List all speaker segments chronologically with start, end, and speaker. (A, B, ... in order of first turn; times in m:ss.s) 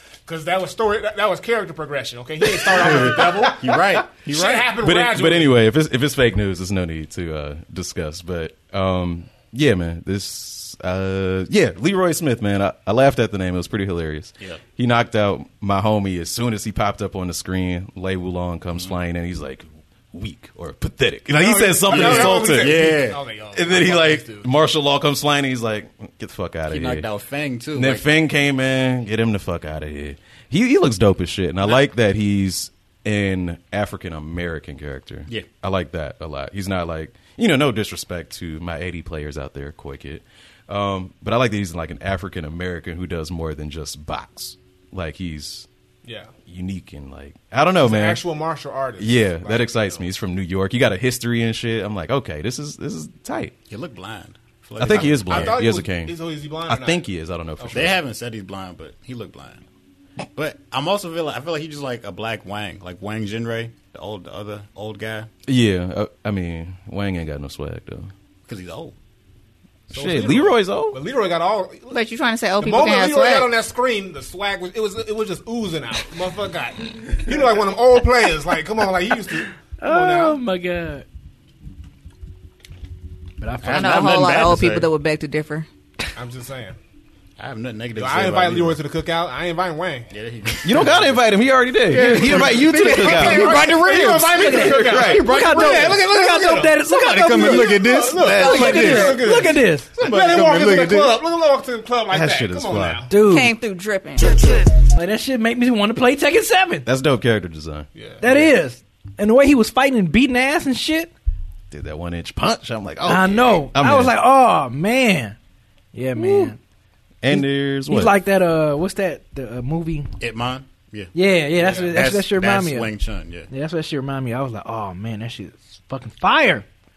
0:00.3-0:05.6 A
0:02.8-0:04.7 B
0:04.8-0:23.0 C
0:21.3-0:24.5 A
0:21.9-0:23.2 B
0:23.5-0:27.1 C
0:26.7-0:28.0 B
0:27.8-0:45.7 C
0:46.0-0:46.3 A
0:46.5-0:48.2 C
0:47.8-0:50.0 A
0:49.0-0:53.6 C
0:53.7-0:55.6 B
0:54.8-0:58.0 C
0:54.9-0:57.9 A
0:57.7-0:59.6 B
1:00.4-1:05.3 B
1:05.5-1:08.1 C
1:08.5-1:09.0 B
1:09.9-1:11.0 C
1:09.9-1:12.0 A
1:11.9-1:13.5 D
1:12.6-1:20.4 A
1:19.8-1:21.0 E
1:23.4-1:24.4 E
1:23.6-1:24.9 B
1:23.7-1:26.1 D
1:26.2-1:26.8 A
1:27.4-1:28.8 B
1:28.0-1:30.1 A
1:30.1-1:31.2 B
1:30.6-1:35.6 C
1:31.9-1:34.4 B
1:32.9-1:33.6 D
1:33.0-1:36.8 A
1:34.3-1:39.9 E
1:36.9-1:39.2 B
1:37.4-1:43.1 A
1:38.2-1:38.5 C
1:38.4-1:39.2 D
1:40.0-1:41.2 B
1:42.1-1:43.0 C
1:43.1-1:43.5 E
1:43.2-1:44.7 D
1:44.9-1:46.9 E
1:46.8-1:47.9 C
1:48.0-1:48.5 A
1:48.2-1:51.1 E
1:51.7-1:54.1 C
1:53.0-1:55.4 E
1:55.9-1:56.6 E
1:56.2-1:56.6 C
1:57.2-1:58.2 C
1:57.3-2:00.2 E
2:00.2-2:01.1 B
2:01.1-2:02.9 E
2:01.6-2:01.9 A
2:01.9-2:03.5 B
2:03.5-2:06.7 E